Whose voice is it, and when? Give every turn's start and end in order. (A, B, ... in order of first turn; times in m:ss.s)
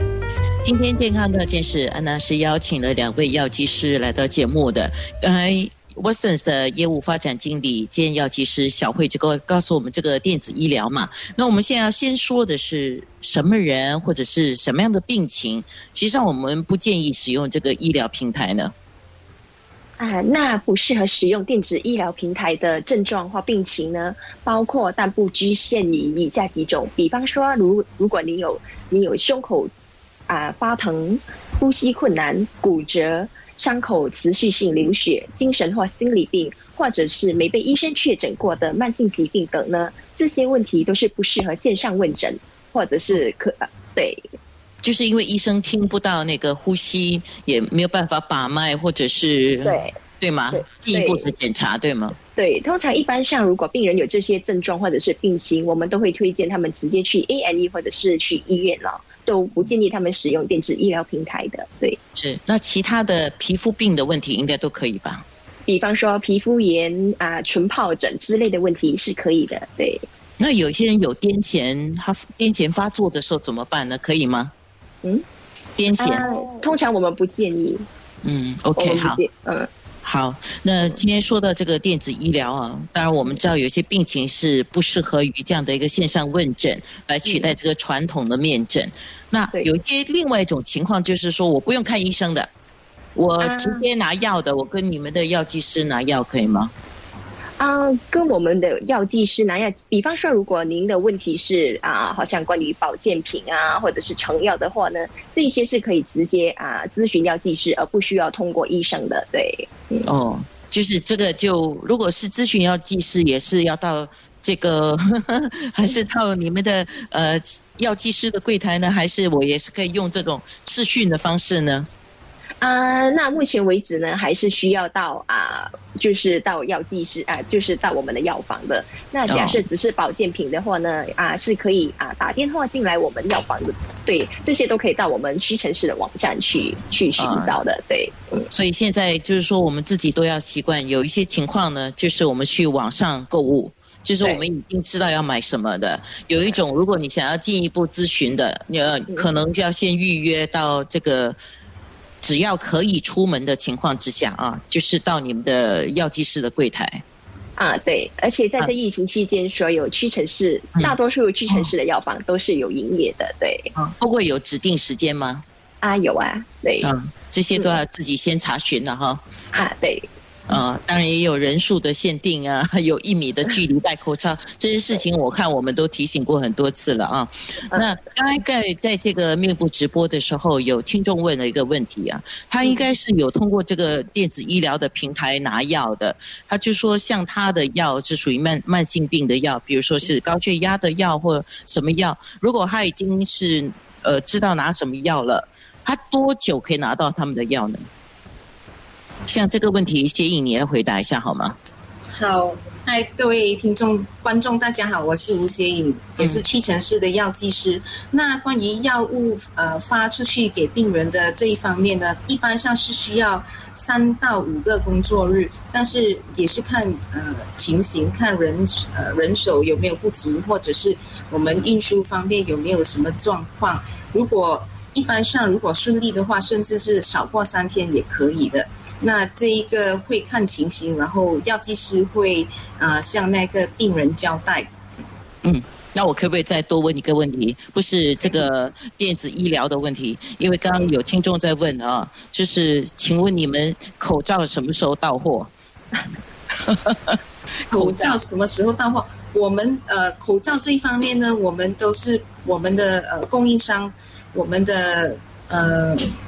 0:00.6-0:18.7 A
0:20.0-0:29.7 B
0:30.3-0:44.3 B
0:44.8-0:52.2 A
0:49.6-0:49.9 B
0:50.5-0:51.3 B
0:52.4-1:02.0 B
1:02.2-1:05.2 A
1:05.7-1:10.0 B
1:10.4-1:14.5 A
1:15.8-1:16.3 A
1:16.0-1:17.9 B
1:18.2-1:19.2 A
1:18.8-1:19.7 B
1:20.0-1:32.5 A
1:27.2-1:27.5 B
1:33.2-1:36.7 A
1:33.4-1:33.8 B
1:37.6-1:50.1 B
1:50.1-2:01.9 A
2:02.6-2:18.4 B
2:09.3-2:09.6 A
2:17.2-2:17.6 A
2:18.5-2:31.4 A
2:32.2-2:37.0 A
2:37.6-2:43.7 B
2:43.8-2:45.4 A
2:45.8-2:46.9 B
2:46.8-2:49.2 A
2:49.5-2:50.1 B
2:50.5-3:17.8 A
3:02.6-3:02.9 B
3:19.3-3:21.6 A
3:22.1-3:54.7 C
3:55.4-4:05.5 A
4:06.7-4:07.2 A
4:07.7-4:16.1 C
4:07.7-4:08.2 A